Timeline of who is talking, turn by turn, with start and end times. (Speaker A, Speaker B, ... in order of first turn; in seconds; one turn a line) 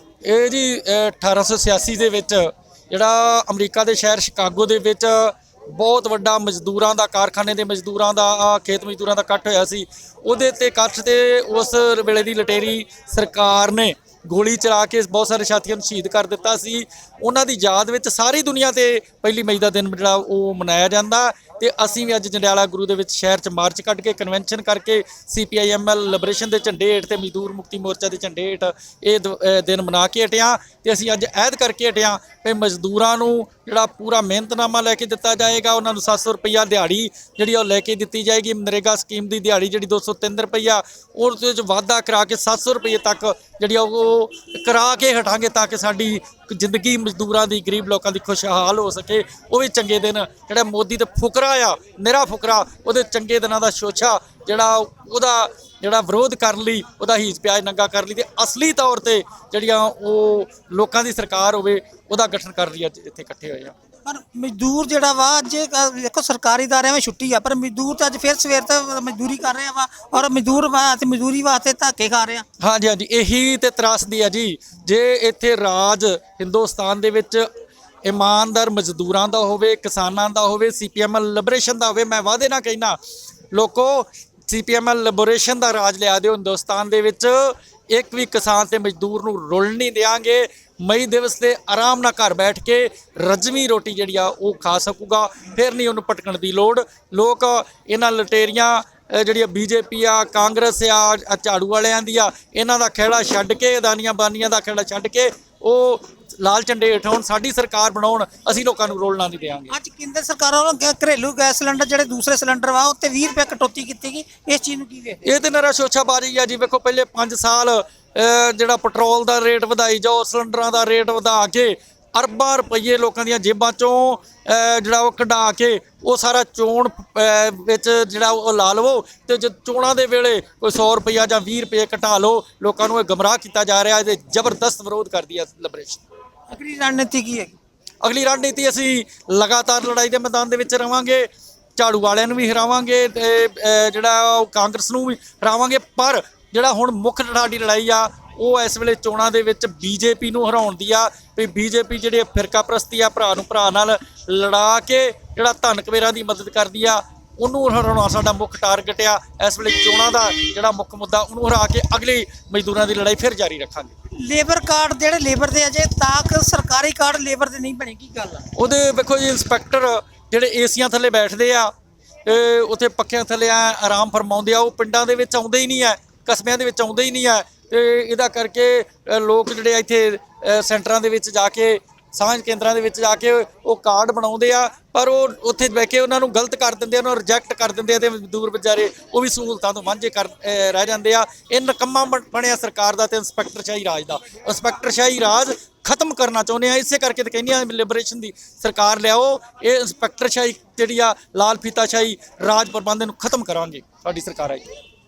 Speaker A: 0.2-63.7
Speaker B: 64.0-72.5
Speaker A: 72.6-77.5
Speaker A: 78.0-83.0
Speaker A: 83.5-109.7
Speaker B: 109.7-115.2
Speaker A: 115.2-136.0
Speaker B: 136.5-137.6
Speaker A: 138.0-163.9
Speaker B: 164.2-168.5
Speaker A: 168.5-171.7
Speaker A: 172.2-204.7